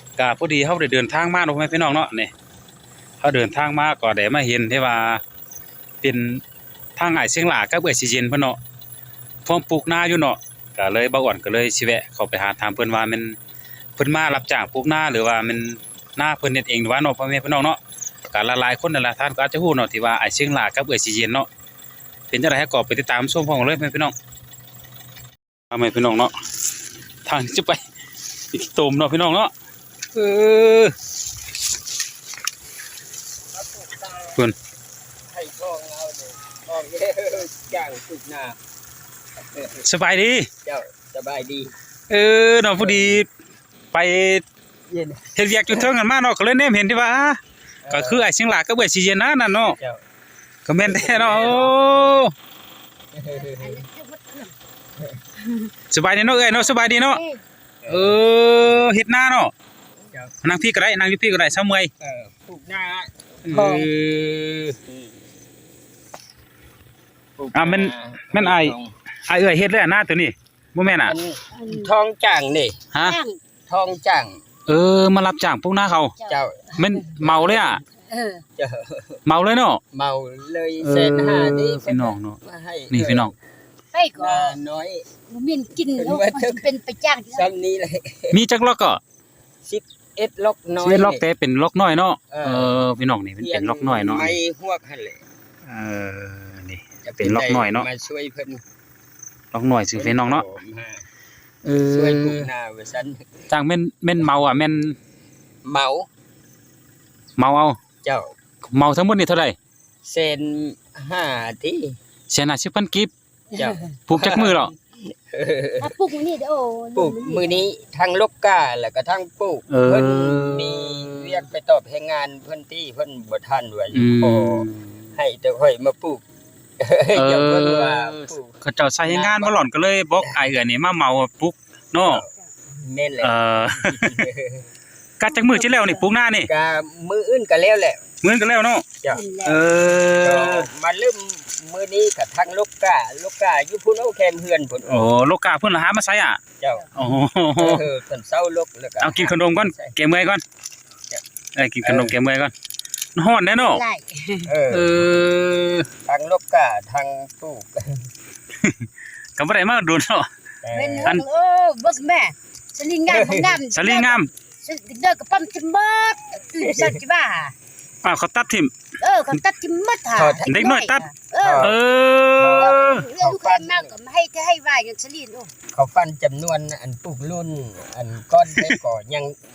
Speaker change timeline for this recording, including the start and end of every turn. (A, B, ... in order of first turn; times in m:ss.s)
0:00.2-0:02.3 A
0:03.2-0:05.2 A
0:06.0-0:06.4 A
0:07.0-0:08.6 A
0:09.4-0:13.4 A
0:14.0-0:17.8 A
0:18.3-0:21.5 A
0:22.3-0:24.2 A
0:25.7-0:26.4 A
0:27.2-0:27.8 A
0:28.5-0:29.5 A
0:30.1-0:31.0 A
0:33.5-0:34.4 B
0:35.3-0:38.6 B
0:39.5-0:39.8 B
0:39.8-0:40.5 A
0:40.6-0:41.7 B
0:42.1-0:43.3 A
0:42.8-0:43.2 B
0:43.9-0:44.4 A
0:44.9-0:45.9 B
0:45.4-0:49.8 A
0:47.8-0:48.2 B
0:49.7-0:50.0 B
0:50.7-0:52.3 A
0:50.8-0:51.8 B
0:53.1-0:53.8 B
0:53.3-0:54.5 C
0:55.4-0:55.7 C
0:55.9-0:57.2 A
0:56.5-0:57.4 C
0:57.8-0:58.2 B
0:57.9-0:59.5 A
1:00.4-1:01.9 A
1:02.0-1:05.0 B
1:03.5-1:03.9 C
1:03.5-1:03.8 A
1:07.4-1:08.9 B
1:07.5-1:08.8 A
1:09.3-1:11.2 A
1:11.0-1:12.8 B
1:11.5-1:11.9 C
1:12.9-1:13.2 A
1:13.0-1:13.4 C
1:13.7-1:14.4 B
1:14.7-1:16.2 A
1:16.2-1:17.2 C
1:16.3-1:16.7 B
1:16.8-1:17.8 A
1:17.2-1:17.8 B
1:17.9-1:18.4 C
1:18.6-1:19.2 B
1:19.3-1:19.8 A
1:19.9-1:23.3 B
1:20.8-1:22.4 A
1:22.9-1:23.3 A
1:23.9-1:24.6 C
1:24.2-1:25.1 B
1:25.3-1:27.5 C
1:25.9-1:26.7 B
1:27.3-1:28.4 B
1:28.3-1:29.0 A
1:29.6-1:31.2 B
1:30.8-1:34.4 A
1:32.3-1:32.7 B
1:33.4-1:35.2 B
1:35.7-1:37.9 A
1:37.0-1:38.6 B
1:39.5-1:40.4 A
1:40.0-1:41.0 B
1:41.6-1:42.5 A
1:41.8-1:43.3 B
1:43.5-1:45.0 A
1:45.6-1:46.1 B
1:47.4-1:47.8 A
1:48.0-1:48.3 B
1:48.7-1:49.6 A
1:50.0-1:52.0 B
1:52.3-1:53.1 A
1:53.5-1:53.9 C
1:53.6-1:55.9 B
1:54.1-1:54.7 A
1:55.8-1:57.7 C
1:57.0-2:06.2 B
1:59.7-2:01.5 A
2:03.9-2:05.0 A
2:06.8-2:09.6 B
2:07.2-2:12.2 A
2:12.0-2:14.7 B
2:13.2-2:14.3 A
2:15.2-2:16.5 A
2:15.3-2:16.1 C
2:16.5-2:18.0 B
2:18.2-2:18.8 A
2:19.0-2:19.3 B
2:19.1-2:19.6 C
2:19.4-2:20.7 A
2:20.2-2:25.1 B
2:24.9-2:26.4 A
2:26.6-2:26.9 B
2:27.0-2:27.8 A
2:27.6-2:30.0 B
2:29.0-2:30.4 A
2:31.6-2:32.5 A
2:31.8-2:32.2 B
2:33.2-2:33.8 A
2:33.5-2:34.5 C
2:34.5-2:35.0 B
2:34.7-2:35.9 A
2:36.1-2:38.1 B
2:38.6-2:40.3 A
2:40.6-2:41.2 B
2:40.7-2:47.5 C
2:43.1-2:43.6 B
2:43.7-2:44.3 A
2:46.6-2:47.0 B
2:48.0-2:48.7 A
2:49.0-2:51.7 C
2:50.1-2:50.6 B
2:50.5-2:51.0 A
2:51.4-2:51.8 B
2:51.6-2:53.1 A
2:52.4-2:54.0 B
2:52.6-2:55.5 C
2:55.7-2:59.4 B